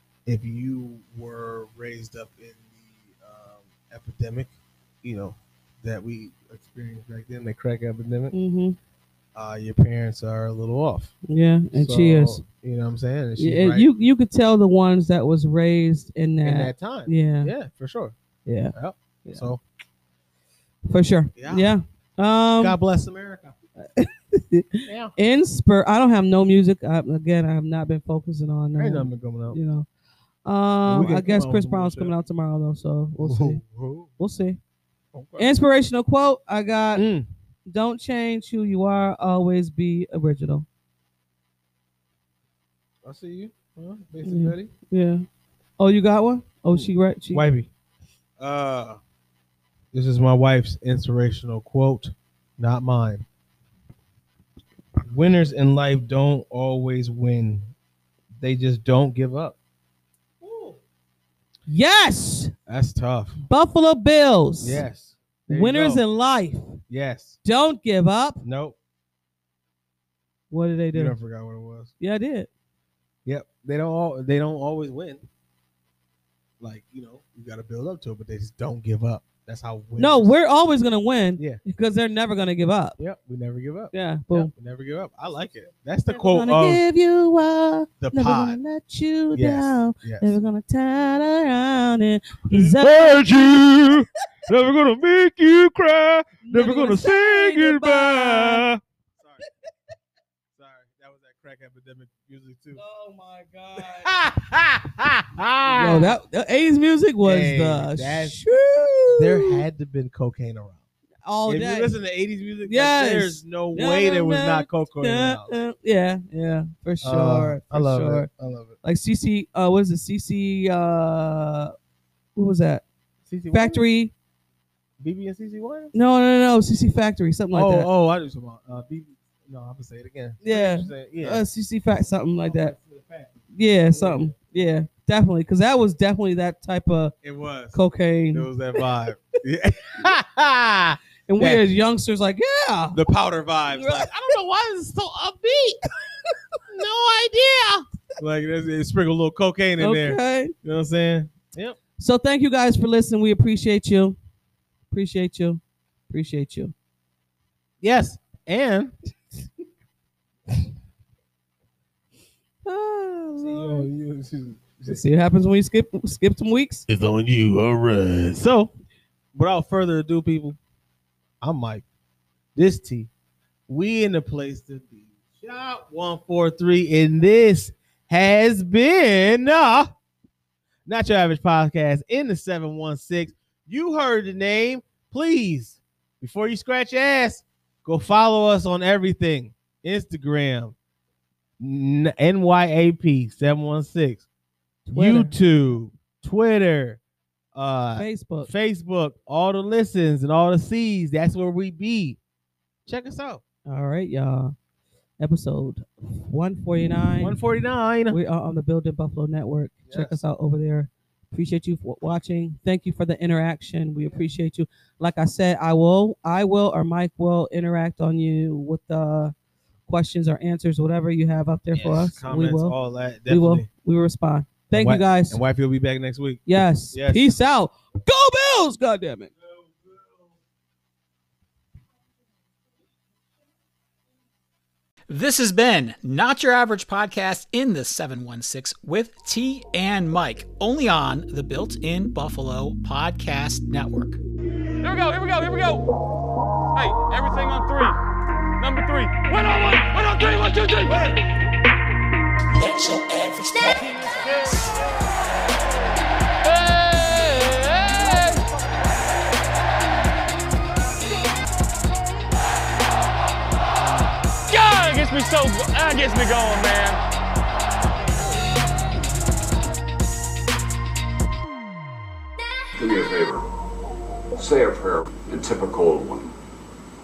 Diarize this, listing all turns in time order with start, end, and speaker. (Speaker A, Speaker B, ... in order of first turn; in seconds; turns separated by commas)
Speaker A: 0.2-4.5, Speaker A: 5.0-8.3, Speaker B: 8.3-8.8, Speaker A: 9.3-11.1, Speaker B: 11.3-12.4, Speaker A: 11.7-13.9, Speaker B: 13.4-17.5, Speaker A: 16.4-18.1, Speaker B: 18.4-19.5, Speaker A: 18.7-19.6, Speaker B: 20.9-22.8, Speaker A: 21.4-21.7, Speaker A: 22.6-23.5, Speaker B: 23.8-29.9, Speaker A: 24.9-25.1, Speaker A: 28.8-29.6, Speaker B: 30.4-33.6, Speaker A: 30.9-32.1, Speaker A: 33.2-34.1, Speaker B: 34.2-34.6, Speaker A: 35.1-35.5, Speaker B: 35.4-37.0, Speaker A: 36.9-37.3, Speaker B: 37.7-40.6, Speaker A: 43.0-44.7, Speaker B: 44.2-45.2, Speaker B: 45.8-47.5, Speaker A: 46.7-47.7, Speaker A: 48.4-49.0, Speaker A: 49.9-53.2, Speaker A: 55.1-57.7, Speaker A: 58.4-59.5, Speaker A: 60.4-60.8, Speaker B: 61.7-62.5, Speaker A: 62.7-63.4, Speaker B: 63.5-64.8, Speaker A: 64.6-66.0, Speaker B: 65.5-66.8, Speaker A: 66.9-67.4, Speaker B: 67.4-68.4, Speaker A: 68.4-68.8, Speaker B: 70.5-71.2, Speaker A: 70.9-71.9, Speaker B: 72.0-72.5, Speaker A: 73.2-75.2, Speaker A: 76.6-80.3, Speaker B: 80.0-83.0, Speaker A: 83.0-86.8, Speaker B: 83.9-84.5, Speaker B: 86.0-93.6, Speaker A: 88.0-88.6, Speaker A: 89.3-90.3, Speaker A: 92.5-99.4, Speaker B: 96.4-98.6, Speaker A: 100.5-102.8, Speaker B: 102.7-104.1, Speaker A: 103.8-106.2, Speaker B: 105.7-109.6, Speaker A: 107.2-108.4, Speaker A: 109.2-110.8, Speaker B: 111.2-112.0, Speaker A: 111.5-115.5, Speaker B: 112.7-118.3, Speaker A: 117.0-118.8, Speaker B: 118.8-121.7, Speaker B: 122.3-122.8, Speaker A: 123.2-123.8, Speaker B: 123.5-124.1, Speaker A: 125.0-125.9, Speaker B: 125.9-127.9, Speaker A: 127.5-131.4, Speaker B: 130.4-132.7, Speaker A: 132.4-133.4, Speaker B: 133.5-137.1, Speaker A: 133.9-134.3, Speaker A: 137.2-137.8, Speaker B: 137.7-138.5, Speaker A: 138.3-141.6, Speaker B: 141.3-143.0, Speaker A: 142.9-145.8, Speaker B: 143.7-144.1, Speaker A: 146.6-151.8, Speaker B: 149.8-150.5, Speaker B: 152.0-154.2, Speaker B: 154.9-156.7, Speaker A: 157.8-158.9, Speaker B: 162.6-163.9, Speaker A: 163.4-165.0, Speaker B: 164.8-166.8, Speaker A: 166.9-168.7, Speaker A: 169.3-170.6, Speaker A: 171.4-171.8, Speaker A: 172.6-173.1, Speaker A: 173.7-179.9, Speaker A: 180.8-190.7, Speaker A: 191.6-194.2, Speaker B: 194.9-195.3, Speaker A: 194.9-197.0, Speaker A: 197.5-202.2, Speaker B: 197.9-198.5, Speaker A: 202.8-203.4, Speaker B: 203.7-204.5, Speaker B: 205.2-207.4, Speaker A: 207.2-208.2, Speaker B: 208.1-219.3, Speaker A: 209.9-210.2, Speaker B: 219.9-222.7, Speaker A: 221.7-223.7, Speaker B: 223.3-225.4, Speaker A: 224.7-227.3, Speaker B: 226.4-229.3, Speaker C: 235.1-244.2, Speaker D: 244.8-245.9, Speaker D: 246.8-248.0, Speaker D: 248.6-251.2, Speaker E: 252.5-254.0, Speaker D: 254.0-254.7, Speaker D: 256.4-258.5, Speaker D: 264.5-267.0, Speaker E: 272.8-273.4, Speaker E: 274.3-276.3